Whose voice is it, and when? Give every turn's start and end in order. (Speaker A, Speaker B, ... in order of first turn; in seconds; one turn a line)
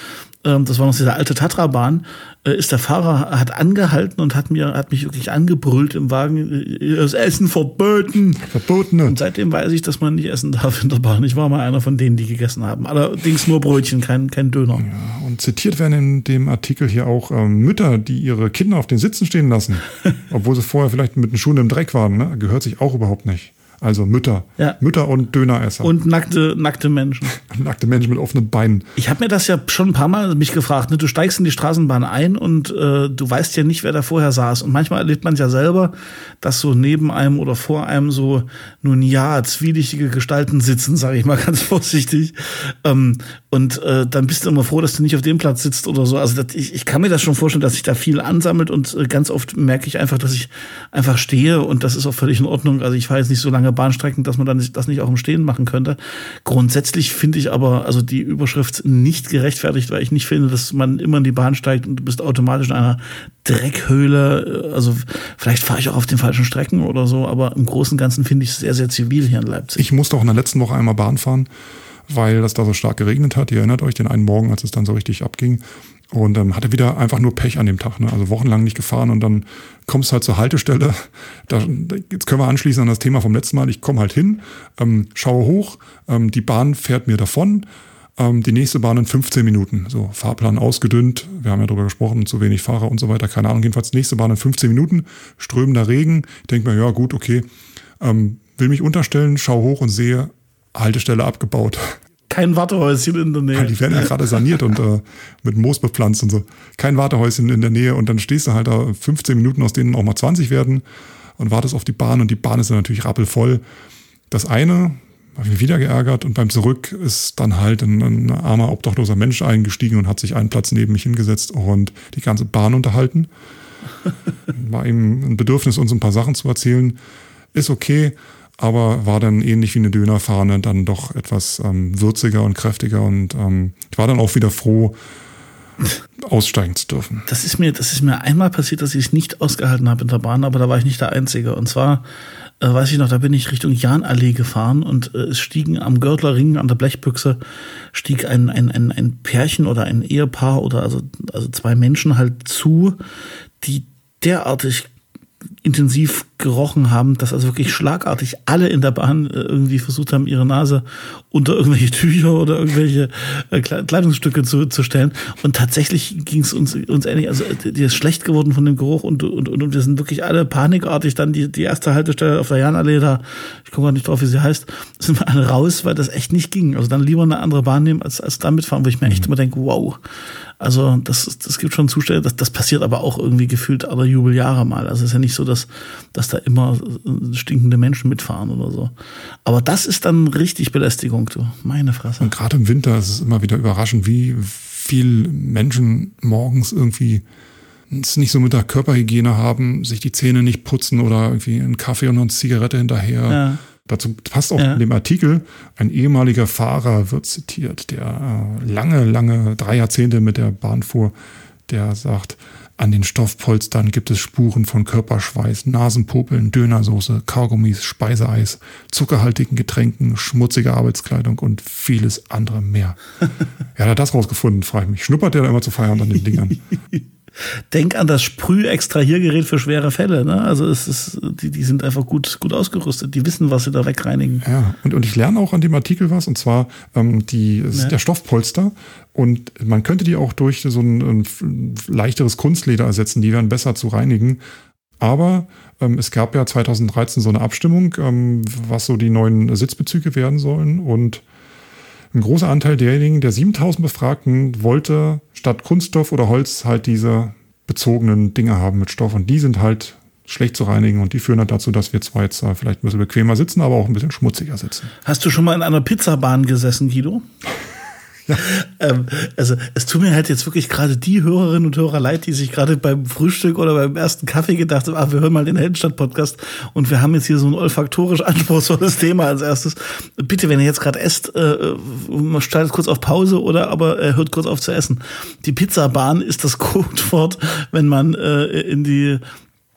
Speaker A: 0.4-8.5
Speaker B: 8.4-9.2
Speaker A: 9.1-14.8
Speaker B: 14.8-25.9
Speaker A: 25.8-27.4
Speaker B: 27.3-28.9
Speaker A: 29.0-69.8
Speaker B: 69.8-71.5
Speaker B: 72.1-87.7
Speaker B: 88.2-97.4
Speaker B: 98.0-101.9
Speaker A: 102.3-104.1
Speaker B: 103.5-110.8
Speaker B: 111.4-113.6
Speaker B: 114.3-123.3
Speaker B: 124.5-127.0
Speaker B: 127.5-135.0
Speaker B: 136.2-137.2
Speaker A: 137.3-142.0
Speaker A: 142.6-147.4
Speaker A: 147.9-153.0
Speaker A: 153.6-154.9
Speaker A: 155.6-180.0
Speaker A: 180.6-188.9
Speaker A: 189.4-192.3
Speaker B: 192.2-197.2
Speaker B: 197.9-211.1
Speaker A: 203.3-203.6
Speaker B: 211.7-223.0
Speaker B: 223.8-226.6
Speaker A: 227.7-234.4
Speaker B: 234.4-244.4
Speaker B: 245.0-251.2
Speaker B: 252.1-264.9
Speaker A: 265.0-267.2
Speaker A: 268.3-289.2